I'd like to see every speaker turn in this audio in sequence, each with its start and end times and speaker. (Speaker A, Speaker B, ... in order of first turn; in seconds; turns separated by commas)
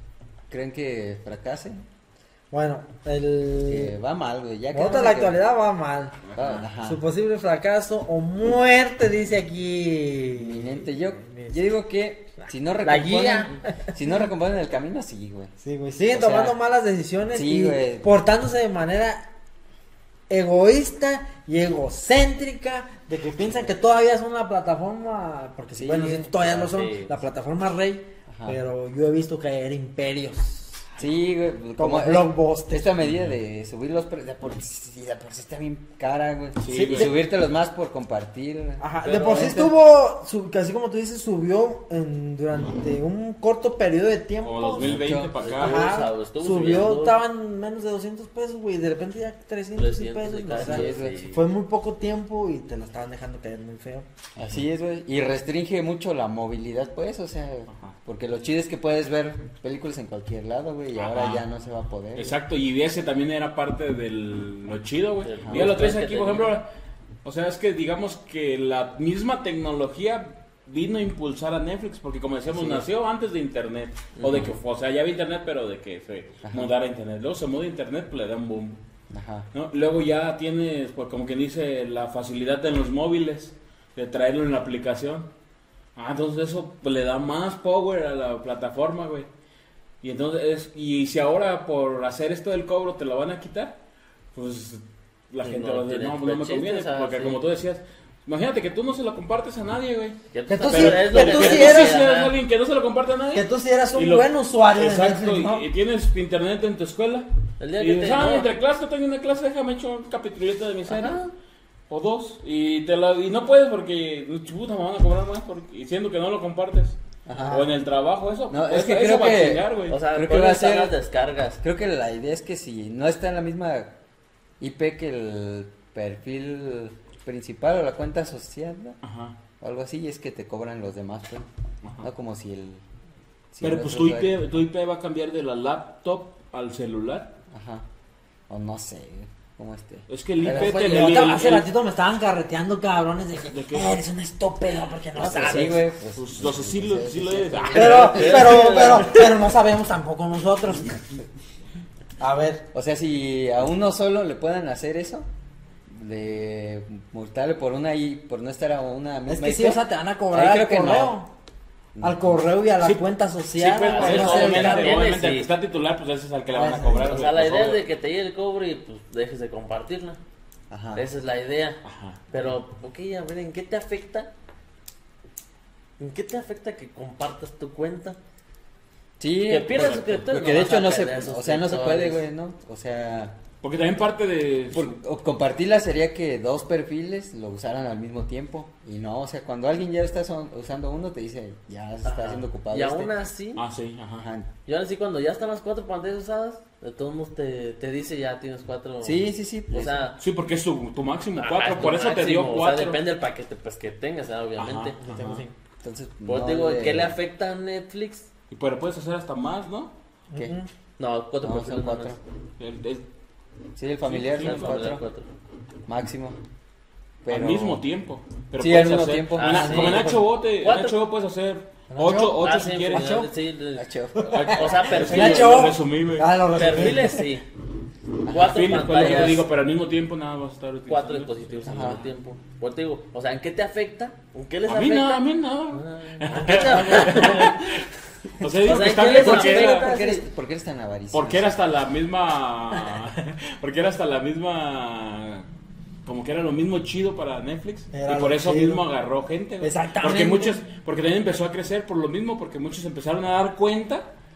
Speaker A: 0.5-1.8, Speaker B: 2.5-3.9, Speaker A: 3.7-5.4, Speaker B: 4.7-6.2, Speaker C: 6.3-6.6, Speaker A: 6.3-7.0, Speaker B: 6.8-11.7, Speaker A: 10.3-15.5, Speaker B: 12.5-14.1, Speaker B: 15.6-19.2, Speaker A: 16.1-16.6, Speaker A: 17.3-18.1, Speaker B: 20.3-30.9, Speaker A: 25.8-26.5, Speaker D: 26.5-27.1, Speaker A: 28.3-28.6, Speaker A: 31.0-39.7, Speaker B: 31.8-32.9, Speaker C: 33.0-33.3, Speaker C: 36.6-37.1, Speaker B: 38.8-45.0, Speaker D: 39.0-39.6, Speaker C: 44.4-45.9, Speaker A: 44.8-45.3, Speaker D: 45.4-47.2, Speaker B: 45.5-54.1, Speaker D: 49.7-51.5, Speaker A: 50.6-51.2, Speaker C: 54.4-54.6, Speaker A: 54.4-62.3, Speaker C: 61.0-61.4, Speaker C: 62.1-66.7, Speaker D: 65.2-66.6, Speaker A: 65.4-65.7, Speaker C: 67.2-78.8, Speaker A: 72.5-72.8, Speaker D: 74.1-74.5, Speaker A: 76.4-76.7, Speaker A: 79.1-79.5, Speaker C: 79.5-85.3, Speaker C: 85.9-89.3, Speaker C: 90.0-93.8, Speaker C: 94.3-111.3, Speaker D: 95.4-97.4, Speaker D: 100.3-102.4, Speaker B: 100.5-102.0, Speaker B: 103.3-105.7, Speaker D: 107.6-108.5, Speaker D: 110.9-111.3, Speaker C: 111.9-120.0, Speaker A: 117.2-117.7, Speaker A: 118.5-121.0, Speaker D: 119.9-121.6, Speaker A: 121.5-124.0, Speaker A: 124.6-129.0, Speaker C: 129.0-129.4, Speaker A: 129.6-131.5, Speaker C: 131.8-132.1, Speaker A: 132.0-132.8, Speaker A: 133.5-134.4, Speaker C: 133.6-137.3, Speaker A: 137.5-137.8, Speaker A: 138.5-141.3, Speaker C: 140.1-141.7, Speaker B: 140.4-145.8, Speaker C: 143.4-144.0, Speaker A: 145.2-148.8, Speaker C: 145.4-148.6, Speaker D: 147.6-149.4, Speaker B: 147.7-151.2, Speaker B: 152.2-152.6, Speaker A: 152.7-155.3, Speaker A: 155.9-161.2, Speaker B: 159.3-161.3, Speaker A: 161.9-162.4, Speaker B: 162.0-165.0, Speaker C: 163.5-167.9, Speaker D: 163.9-165.5, Speaker B: 166.5-167.2, Speaker D: 166.9-170.2, Speaker A: 170.7-171.0, Speaker D: 170.9-171.8, Speaker C: 171.8-172.3, Speaker D: 172.3-174.3, Speaker D: 176.0-178.2, Speaker A: 179.2-183.4, Speaker D: 179.4-182.2, Speaker C: 179.7-180.1, Speaker C: 183.6-185.0, Speaker A: 184.7-193.1, Speaker D: 192.0-193.6, Speaker C: 193.6-194.2, Speaker A: 194.2-194.5, Speaker D: 194.7-200.2, Speaker A: 199.0-200.0, Speaker C: 200.2-203.0, Speaker D: 201.4-205.0, Speaker C: 204.6-205.4, Speaker B: 205.0-205.5, Speaker A: 205.8-207.2, Speaker D: 206.2-208.3, Speaker C: 208.5-209.9, Speaker B: 210.3-210.7, Speaker D: 211.0-212.2, Speaker A: 211.4-212.2, Speaker C: 212.6-213.1, Speaker A: 213.8-215.0, Speaker C: 214.0-214.8, Speaker D: 214.3-215.3, Speaker A: 215.9-216.4, Speaker A: 217.2-217.8, Speaker C: 217.2-223.3, Speaker A: 218.6-219.9, Speaker D: 219.3-220.9, Speaker B: 219.5-220.1, Speaker B: 221.9-223.3, Speaker D: 222.3-225.7, Speaker A: 223.8-224.5, Speaker B: 224.2-227.3, Speaker C: 224.5-227.0, Speaker D: 226.5-227.4, Speaker A: 228.3-229.4, Speaker D: 228.3-229.5, Speaker C: 228.3-232.1, Speaker D: 230.9-237.8, Speaker A: 231.6-232.0, Speaker C: 234.7-237.8, Speaker B: 236.9-237.5, Speaker C: 238.4-239.9, Speaker D: 238.5-240.2, Speaker A: 239.1-241.5, Speaker C: 241.1-245.4, Speaker C: 246.1-254.1, Speaker B: 247.9-248.8, Speaker B: 249.6-250.6